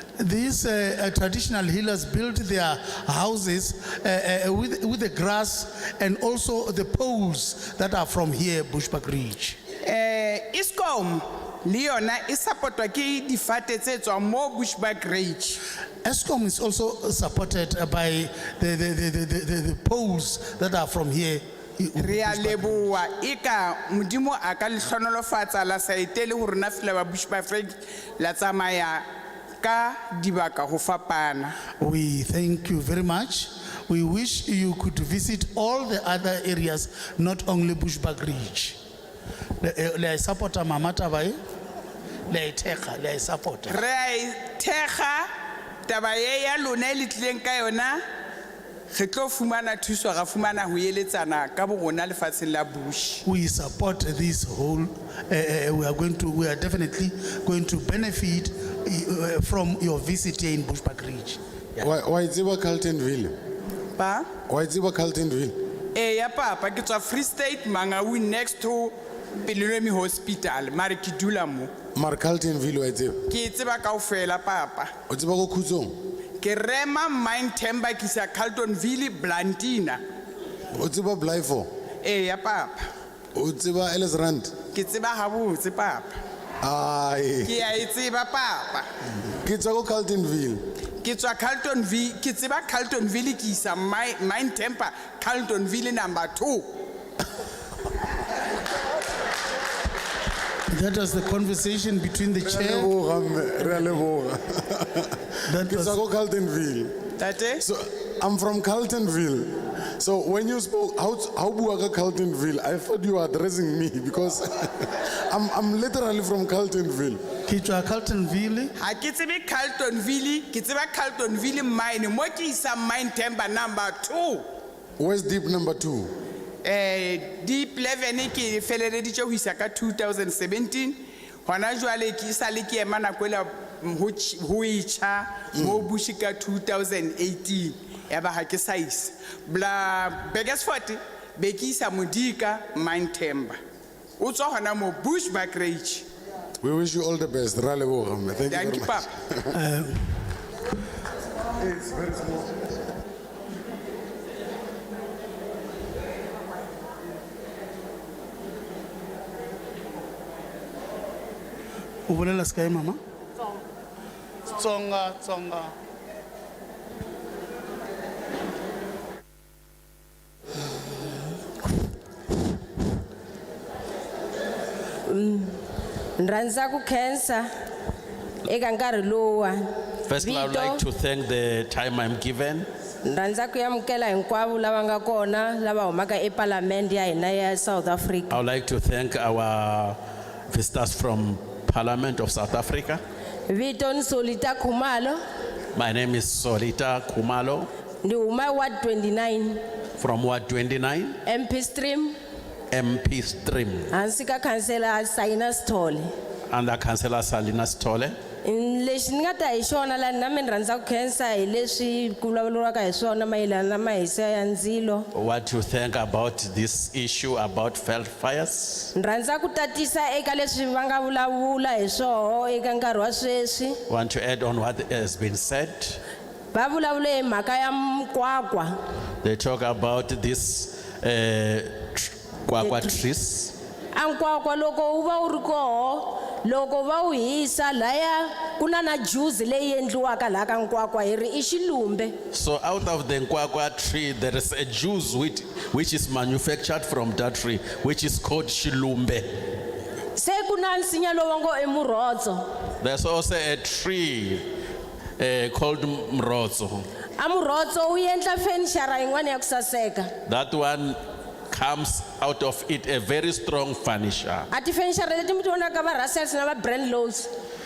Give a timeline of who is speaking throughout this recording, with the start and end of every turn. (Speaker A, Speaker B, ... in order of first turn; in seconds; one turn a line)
Speaker A: 0.2-9.6
Speaker B: 9.8-15.6
Speaker A: 16.0-22.9
Speaker B: 22.0-29.1
Speaker B: 29.6-31.6
Speaker A: 31.8-38.8
Speaker A: 39.6-41.4
Speaker A: 42.3-43.8
Speaker B: 43.7-45.3
Speaker B: 45.9-48.0
Speaker B: 48.9-53.2
Speaker A: 53.2-61.4
Speaker C: 61.8-63.4
Speaker B: 64.0-64.3
Speaker C: 64.5-65.6
Speaker B: 65.9-71.7
Speaker C: 71.9-73.3
Speaker B: 73.3-74.9
Speaker C: 75.1-76.0
Speaker B: 76.4-80.0
Speaker C: 80.7-81.7
Speaker B: 82.0-82.8
Speaker C: 83.3-84.6
Speaker B: 84.7-86.2
Speaker C: 86.6-87.7
Speaker B: 87.5-88.9
Speaker C: 89.4-90.7
Speaker B: 91.0-96.7
Speaker A: 100.7-102.9
Speaker C: 102.4-107.0
Speaker A: 105.5-106.0
Speaker B: 107.2-107.7
Speaker C: 107.6-117.2
Speaker A: 117.5-118.7
Speaker B: 118.8-124.4
Speaker C: 125.0-126.1
Speaker B: 126.6-143.6
Speaker B: 144.2-146.1
Speaker C: 146.6-149.6
Speaker B: 148.5-149.1
Speaker A: 149.5-150.1
Speaker C: 151.6-152.6
Speaker A: 162.1-163.0
Speaker A: 164.5-165.7
Speaker D: 175.1-175.6
Speaker D: 176.2-177.5
Speaker D: 178.4-180.8
Speaker E: 180.1-182.7
Speaker D: 183.0-188.4
Speaker E: 188.3-190.0
Speaker E: 190.5-193.0
Speaker D: 193.5-195.2
Speaker E: 195.7-197.7
Speaker D: 198.0-199.6
Speaker E: 200.0-201.2
Speaker D: 201.3-202.2
Speaker E: 202.7-203.9
Speaker D: 203.9-206.1
Speaker E: 206.5-208.2
Speaker D: 208.4-215.1
Speaker E: 215.1-218.9
Speaker D: 218.9-223.8
Speaker E: 223.9-226.0
Speaker D: 226.5-228.8
Speaker E: 229.2-233.6
Speaker D: 232.6-232.9
Speaker D: 233.9-242.1
Speaker E: 242.3-249.3
Speaker D: 250.2-252.5
Speaker E: 252.8-254.4
Speaker E: 255.2-256.9
Speaker D: 257.2-260.1
Speaker E: 260.3-261.0
Speaker E: 261.5-264.5
Speaker D: 264.5-267.3